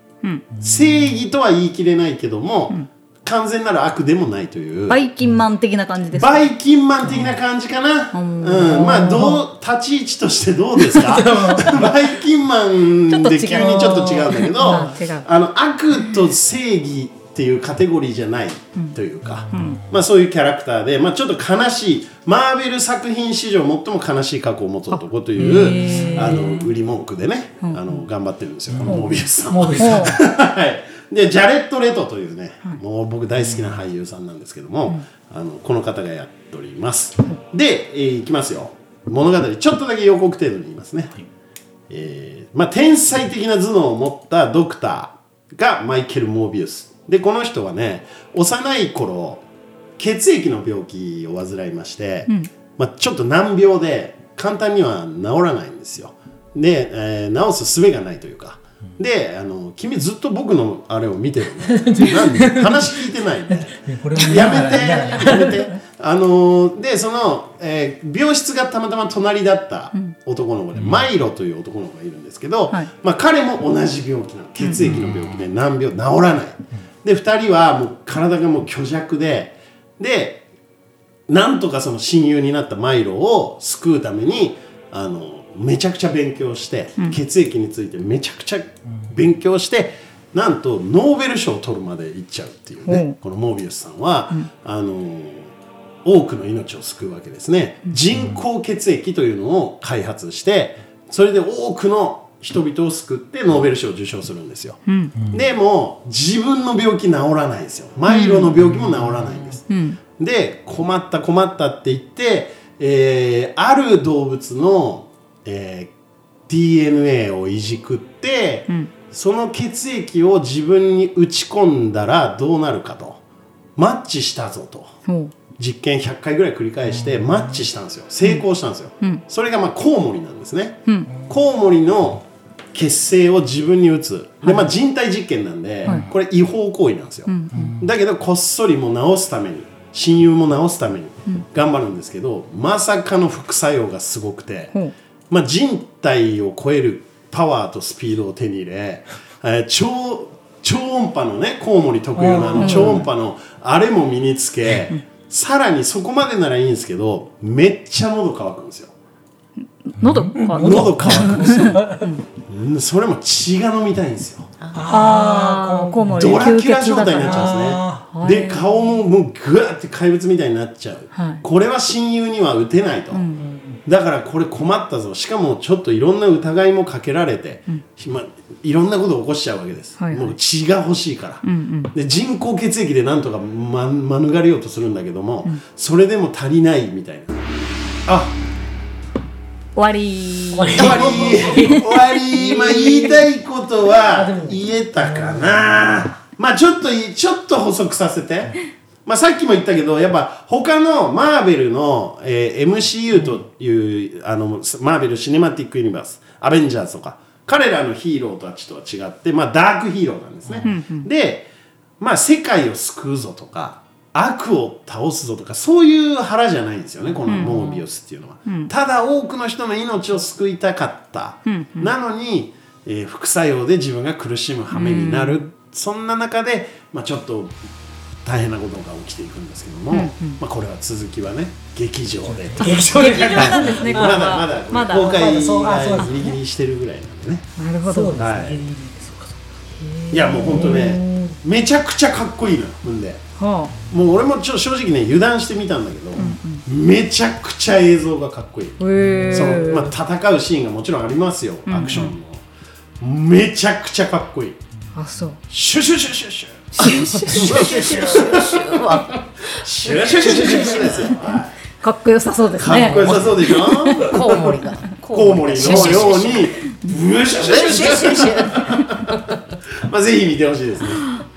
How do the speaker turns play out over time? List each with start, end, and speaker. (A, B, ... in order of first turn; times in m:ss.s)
0:00.6-0:05.0 A
0:04.9-0:06.5 B
0:06.2-0:41.1 A
0:07.1-0:07.4 C
0:08.1-0:09.4 B
0:10.9-0:11.9 C
0:13.1-0:15.3 B
0:13.5-0:14.9 C
0:19.5-0:19.8 C
0:19.5-0:19.8 B
0:24.9-0:26.7 B
0:25.4-0:26.6 C
0:28.7-0:30.2 C
0:28.9-0:29.1 B
0:29.8-0:30.2 B
0:41.9-0:49.4 A
0:50.0-1:20.4 A
1:01.7-1:02.9 C
1:03.5-1:05.7 C
1:10.8-1:11.0 C
1:14.9-1:15.2 C
1:21.3-1:35.5 A
1:32.9-1:33.2 B
1:36.0-1:49.6 A
1:44.9-1:45.1 B
1:48.1-1:48.5 B
1:48.7-1:49.0 C
1:49.7-1:50.0 B
1:50.2-1:55.9 A
1:56.5-2:03.2 A
2:03.8-2:04.9 A
2:05.1-2:05.3 B
2:05.6-2:24.7 A
2:14.4-2:14.7 B
2:15.9-2:16.1 C
2:17.3-2:17.8 B
2:17.5-2:17.9 C
2:25.3-2:38.9 A
2:32.2-2:33.1 C
2:32.6-2:33.1 B
2:39.8-2:42.2 B
2:40.0-2:42.1 C
2:40.6-2:41.8 A
2:42.5-2:44.5 A
2:44.6-2:45.1 D
2:44.7-2:46.6 C
2:44.9-2:48.7 B
2:46.2-2:53.2 A
2:47.2-2:48.0 C
2:51.2-2:51.4 B
2:53.1-2:53.4 B
2:53.4-2:53.8 C
2:53.9-3:07.4 A
3:00.0-3:00.4 B
3:01.4-3:01.9 B
3:08.1-3:08.4 A
3:09.8-3:13.2 B
3:10.5-3:13.1 C
3:10.8-3:31.5 A
3:14.1-3:15.6 C
3:30.6-3:31.1 B
3:32.0-3:47.6 A
3:37.3-3:37.8 B
3:38.5-3:38.7 B
3:41.5-3:41.9 B
3:44.7-3:45.4 B
3:48.2-3:57.5 A
3:49.9-3:50.4 B
3:52.3-3:54.4 C
3:52.6-3:55.4 B
3:54.9-3:56.4 C
3:57.6-3:58.3 B
3:57.8-3:59.4 C
3:58.2-3:58.7 A
4:00.1-4:03.2 A
4:00.3-4:01.2 B
4:00.5-4:01.3 C
4:03.4-4:03.8 B
4:03.9-4:12.4 A
4:06.2-4:06.6 B
4:08.8-4:09.9 B
4:09.0-4:09.6 C
4:11.7-4:12.1 B
4:13.0-4:14.6 A
4:15.0-4:15.4 B
4:15.5-4:18.6 A
4:16.8-4:18.6 B
4:16.8-4:21.2 D
4:19.5-4:21.6 A
4:20.3-4:24.2 B
4:22.6-4:24.5 A
4:22.7-4:23.3 D
4:23.9-4:26.6 D
4:25.1-4:31.1 A
4:25.6-4:26.5 B
4:27.3-4:29.4 D